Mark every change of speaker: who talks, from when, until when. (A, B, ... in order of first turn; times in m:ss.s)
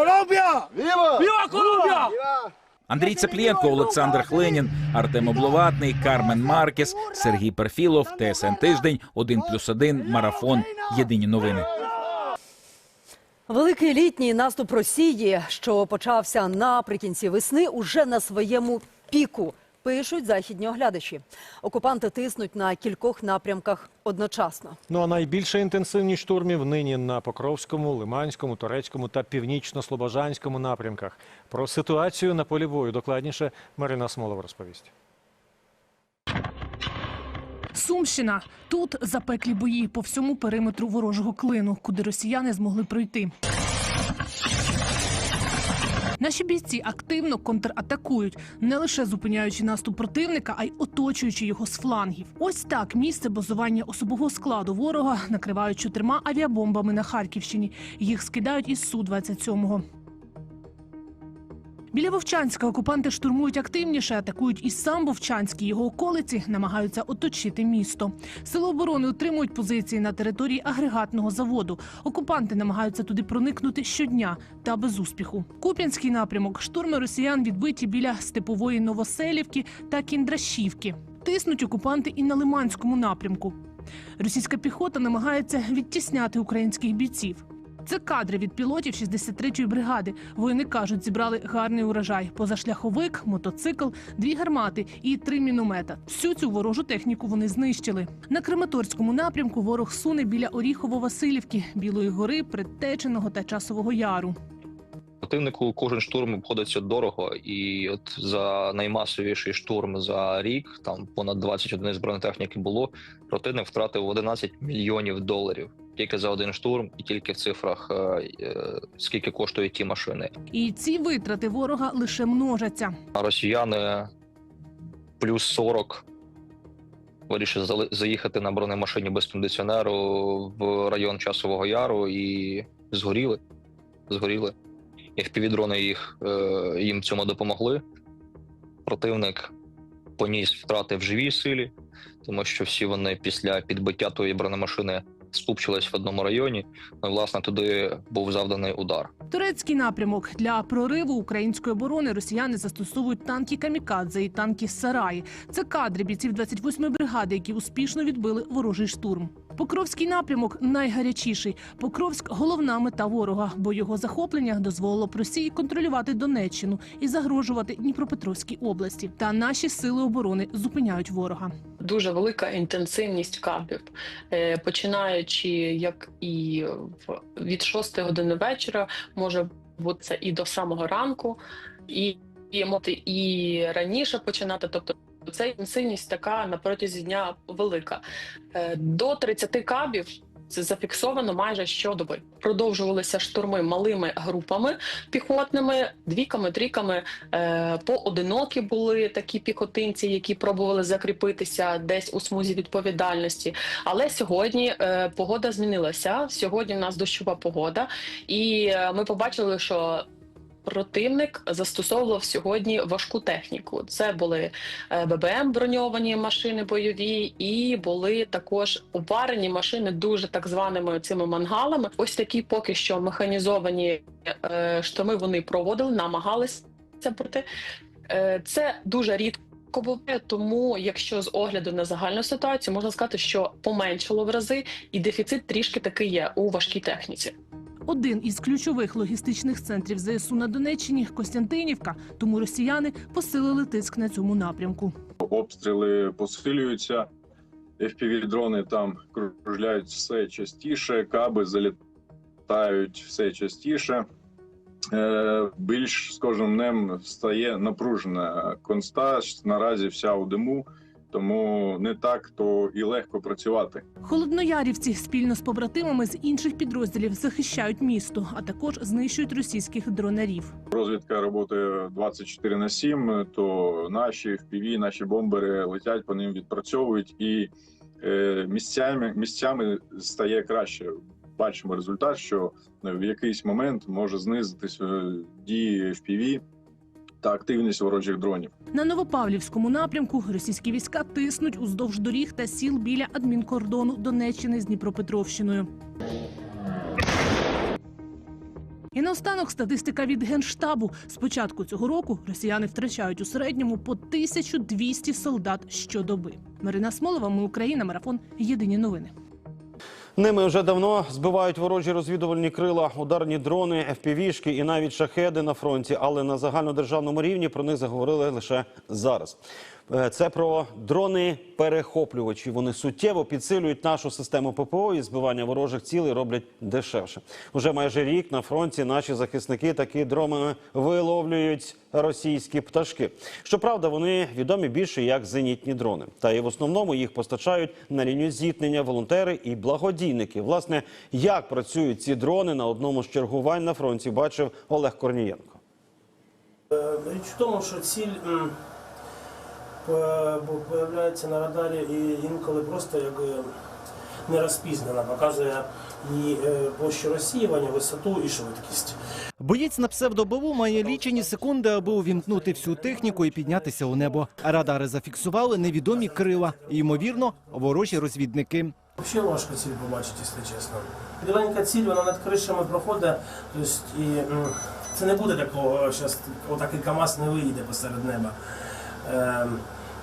0:02.9-0:11.7 A
0:13.5-0:24.8 B
0:24.9-0:34.9 C
0:37.7-0:43.3 D
0:46.2-0:59.8 D
1:01.9-1:23.6 D
1:24.2-1:44.4 D
1:45.2-2:00.3 E
2:00.5-2:03.0 D
2:03.1-2:04.1 E
2:05.2-2:06.0 E
2:07.3-2:13.4 E
2:14.1-2:14.5 E
2:15.2-2:17.8 E
2:18.9-2:19.5 E
2:20.2-2:21.7 E
2:22.2-2:29.1 E
2:29.3-2:51.5 D
2:51.8-3:08.0 F
3:08.5-3:30.0 F
3:30.6-3:47.5 F
3:48.1-3:57.3 F
3:57.9-4:04.9 D
4:05.2-4:07.1 G
4:07.8-4:11.8 G
4:12.5-4:14.0 G
4:14.9-4:23.8 G
4:24.0-4:30.5 D
4:30.7-4:46.4 G
4:47.2-4:48.5 G
4:48.7-4:55.7 D
4:58.9-5:09.1 D
5:10.2-5:19.4 H
5:19.9-5:45.6 H
5:46.7-5:48.5 I
5:49.8-5:53.5 I
5:54.3-5:59.0 I
5:59.4-6:08.7 J
6:00.8-6:04.7 I
6:05.6-6:07.6 I
6:09.0-6:18.3 I
6:19.0-6:19.6 I